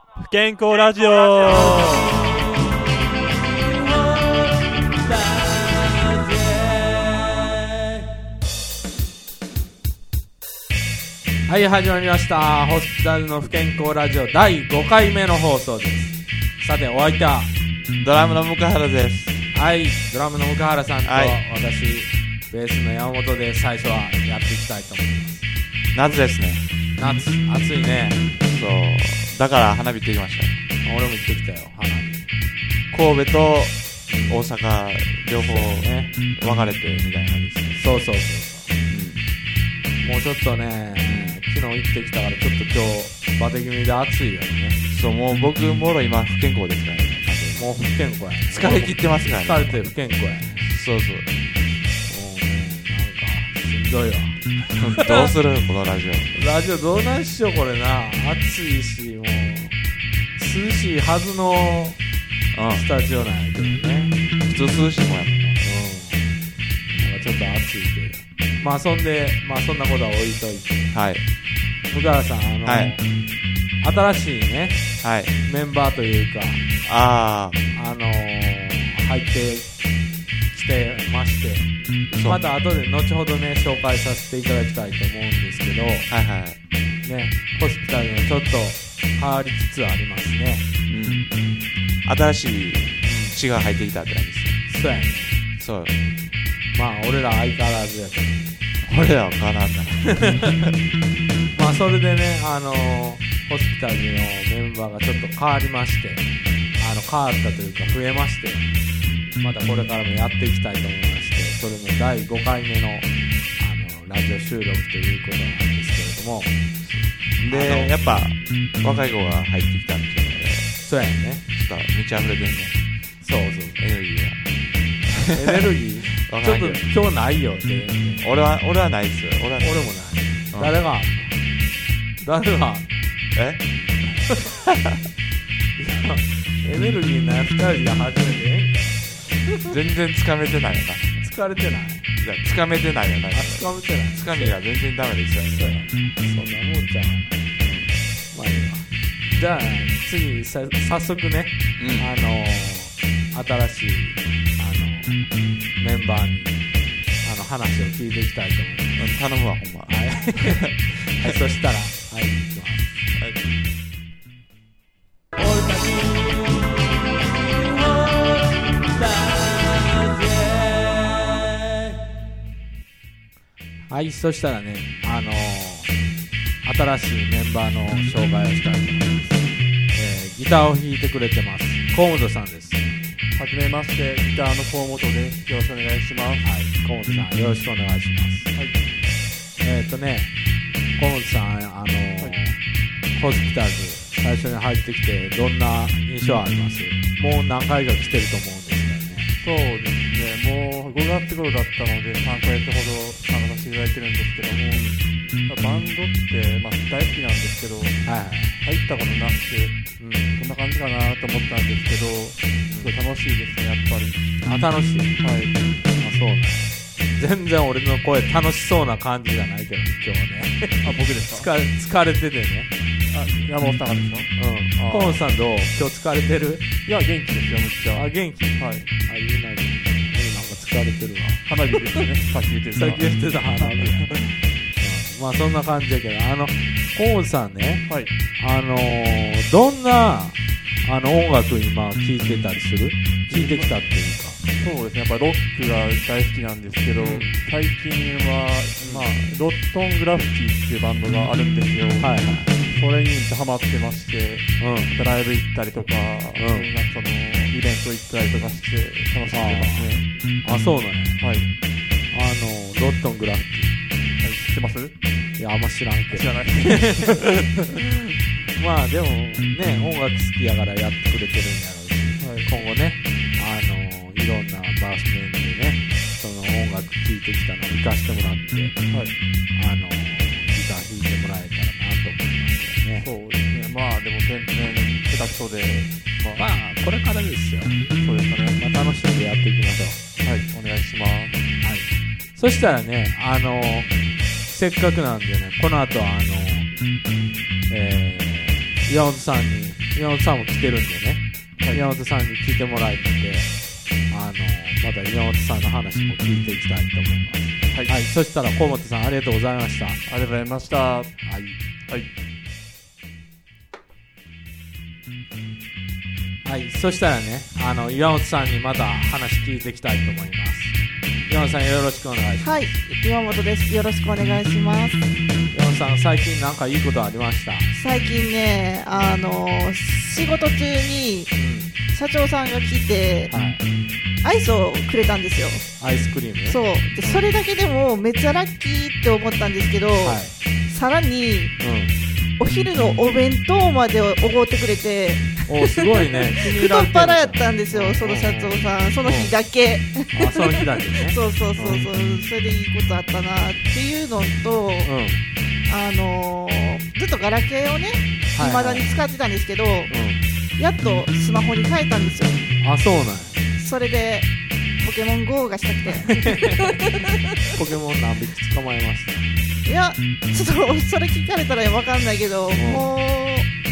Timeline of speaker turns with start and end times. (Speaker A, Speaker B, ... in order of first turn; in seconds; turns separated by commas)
Speaker A: 0.2-2.2, Speaker B: 11.5-17.5, Speaker C: 17.9-19.4, Speaker B: 19.5-25.4, Speaker C: 21.0-21.4, Speaker C: 25.9-26.7, Speaker B: 26.9-28.2, Speaker C: 28.4-30.6, Speaker B: 30.8-32.2, Speaker C: 32.9-33.8, Speaker B: 34.1-34.5, Speaker C: 34.3-37.8, Speaker B: 35.4-36.1, Speaker B: 37.7-38.7, Speaker C: 38.9-39.2, Speaker B: 40.0-44.8, Speaker C: 41.0-41.4, Speaker C: 44.9-47.9, Speaker B: 47.5-50.7, Speaker C: 48.5-49.9, Speaker C: 50.5-51.3, Speaker B: 52.1-55.3, Speaker C: 54.8-56.3, Speaker B: 56.3-59.8, Speaker B: 60.4-62.0, Speaker C: 62.5-62.8, Speaker B: 62.7-64.2, Speaker C: 64.5-65.6, Speaker B: 65.6-66.3, Speaker B: 67.0-70.9, Speaker C: 70.9-71.2, Speaker B: 71.9-73.0, Speaker C: 72.7-73.0, Speaker B: 73.8-74.8, Speaker C: 75.0-75.3, Speaker B: 75.4-76.6, Speaker C: 76.8-77.6, Speaker B: 77.7-79.7, Speaker B: 80.5-86.1, Speaker C: 82.1-82.4, Speaker C: 86.1-86.6, Speaker B: 87.0-90.7, Speaker C: 90.9-91.3, Speaker C: 92.0-94.6, Speaker B: 93.0-93.4, Speaker B: 94.7-95.4, Speaker C: 95.6-96.0, Speaker B: 96.7-98.6, Speaker C: 98.8-100.7, Speaker B: 101.5-106.2, Speaker B: 106.8-108.7, Speaker B: 109.4-116.5, Speaker C: 116.8-120.7, Speaker B: 117.4-118.3, Speaker B: 120.8-121.4, Speaker C: 121.5-122.8, Speaker B: 123.2-123.8, Speaker C: 123.8-124.4, Speaker B: 125.3-128.3, Speaker C: 126.2-126.8, Speaker C: 128.2-129.9, Speaker B: 129.6-131.4, Speaker C: 130.5-130.8, Speaker B: 132.2-133.0, Speaker C: 133.3-133.6, Speaker B: 135.8-139.5, Speaker C: 139.6-141.2, Speaker B: 141.2-142.1, Speaker C: 142.2-145.9, Speaker B: 143.3-144.6, Speaker B: 145.5-147.5, Speaker C: 147.6-148.0, Speaker B: 148.3-156.6, Speaker C: 151.8-152.1, Speaker B: 157.2-159.2, Speaker C: 158.9-161.2, Speaker B: 159.9-163.1, Speaker B: 173.9-175.9, Speaker B: 176.6-182.8, Speaker A: 183.3-186.4, Speaker B: 186.4-188.5, Speaker B: 189.6-190.3, Speaker B: 191.0-192.6, Speaker B: 193.1-199.3, Speaker A: 199.4-204.8, Speaker B: 204.7-205.0, Speaker A: 205.5-209.8, Speaker B: 208.0-208.6, Speaker B: 210.0-210.4, Speaker A: 210.3-214.2, Speaker B: 212.7-213.0, Speaker B: 214.4-215.2, Speaker A: 215.2-215.6, Speaker B: 215.9-222.7, Speaker A: 220.8-221.5, Speaker A: 223.1-225.2, Speaker B: 224.4-226.6, Speaker A: 226.8-228.9, Speaker B: 227.9-231.4, Speaker A: 231.4-233.0, Speaker B: 232.8-237.8, Speaker A: 233.6-233.9, Speaker B: 238.4-244.4, Speaker A: 243.3-243.7, Speaker A: 244.6-260.1, Speaker B: 246.9-247.4, Speaker B: 248.8-249.1, Speaker B: 252.0-252.6, Speaker B: 254.6-254.9, Speaker B: 256.4-256.7, Speaker B: 259.2-261.2, Speaker A: 261.2-261.5, Speaker B: 262.1-263.7, Speaker A: 264.2-264.9, Speaker B: 265.4-267.2, Speaker A: 266.1-267.4, Speaker B: 268.5-278.8, Speaker A: 272.2-272.5, Speaker B: 279.6-283.1, Speaker A: 283.0-286.4, Speaker B: 286.4-287.8, Speaker A: 288.0-288.6, Speaker B: 288.6-290.0, Speaker A: 290.2-291.4, Speaker B: 291.6-293.9, Speaker B: 294.5-296.7, Speaker B: 297.7-303.5, Speaker B: 304.1-310.0, Speaker A: 307.7-308.0, Speaker A: 310.1-311.1, Speaker B: 311.2-311.6, Speaker B: 316.4-320.8, Speaker B: 321.3-322.7, Speaker D: 322.4-325.1, Speaker B: 325.5-327.7, Speaker D: 327.7-331.3, Speaker B: 328.9-329.2, Speaker B: 331.3-331.7, Speaker D: 331.9-333.3, Speaker B: 333.3-333.6, Speaker D: 334.2-335.6, Speaker B: 335.8-337.2, Speaker D: 336.4-341.6, Speaker B: 340.0-340.3, Speaker B: 341.6-341.9, Speaker D: 342.4-354.9, Speaker B: 345.5-349.3, Speaker B: 350.1-351.8, Speaker B: 354.8-355.2, Speaker D: 355.6-359.9, Speaker B: 358.3-359.0, Speaker B: 359.9-360.2, Speaker D: 360.6-362.4, Speaker B: 362.6-363.4, Speaker D: 363.6-366.7, Speaker B: 366.0-366.8, Speaker B: 367.5-369.2, Speaker D: 369.6-373.5, Speaker B: 372.5-372.9